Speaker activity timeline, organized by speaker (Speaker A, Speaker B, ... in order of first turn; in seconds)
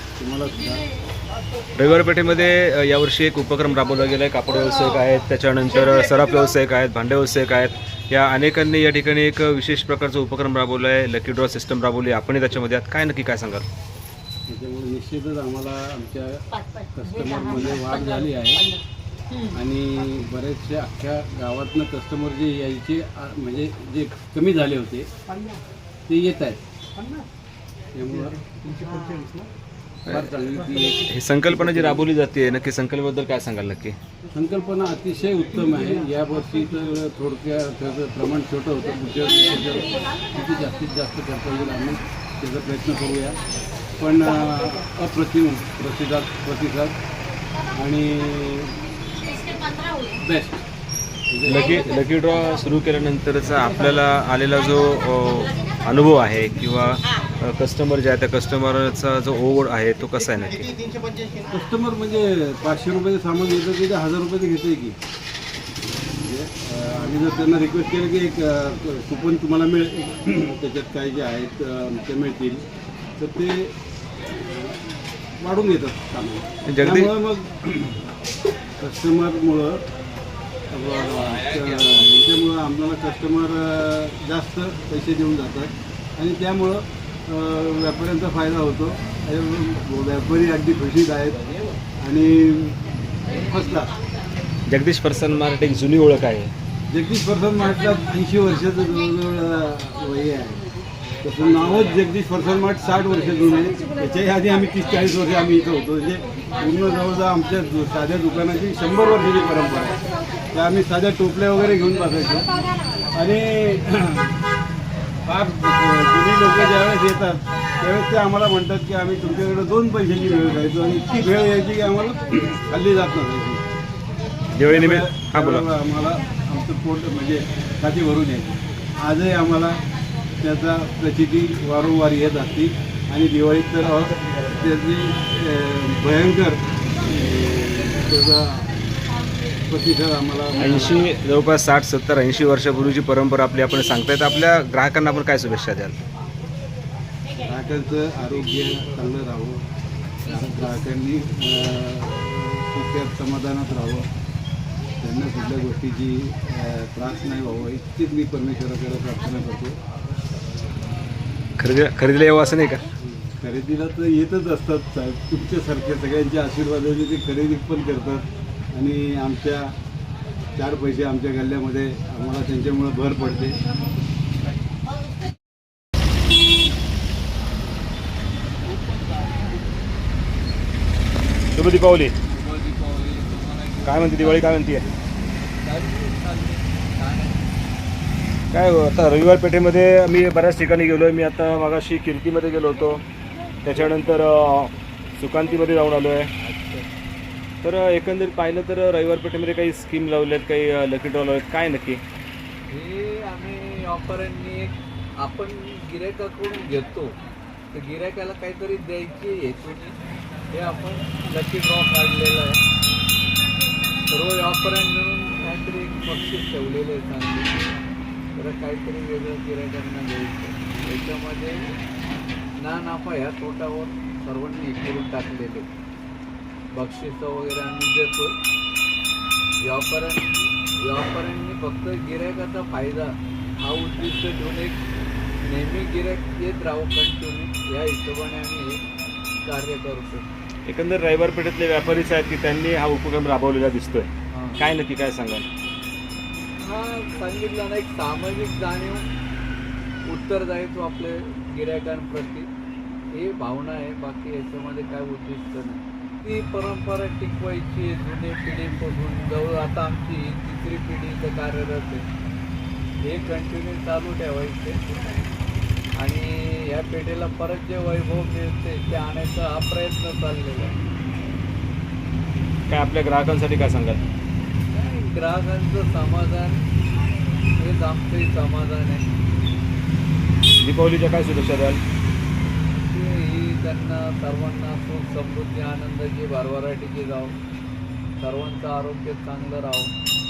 Speaker A: 0.2-0.8, 14.5-18.7, 19.5-25.1, 26.1-26.6, 27.9-29.4, 30.1-32.1, 34.3-43.4, 44.0-47.0, 47.7-48.8, 50.1-50.6, 51.3-52.0, 61.5-65.0, 66.1-72.6, 73.2-74.8, 75.4-78.0, 78.8-79.8, 80.7-91.5, 92.0-93.9, 96.9-100.6, 101.2-110.0, 110.5-112.5, 113.1-114.4, 115.2-123.6, 124.7-129.8, 130.4-138.7, 139.7-141.1, 147.4-149.6, 150.2-154.1, 155.0-159.8, 163.0-169.7, 170.6-173.6
Speaker B: 1.8-13.6, 30.1-30.4, 31.1-34.0, 51.5-60.8, 76.7-77.1, 81.5-82.0, 94.7-96.5, 124.5-125.7, 133.9-134.7, 140.6-146.0, 161.6-162.9, 181.5-182.1, 183.8-184.8, 188.5-193.0, 193.6-196.3, 197.6-202.0, 240.7-245.4, 272.7-274.0, 280.6-281.8
Speaker C: 182.3-184.6, 185.5-187.5, 196.4-196.9, 202.7-207.2, 207.7-209.9, 210.5-212.6, 214.1-217.5, 218.3-221.8, 222.6-225.7, 226.7-228.3, 229.6-234.8, 235.4-238.9, 239.4-240.2, 244.3-244.6, 246.6-249.1, 250.0-252.5, 253.1-262.1, 263.0-264.8, 266.0-270.8, 274.7-276.6, 277.6-279.1, 282.8-287.4, 288.2-289.9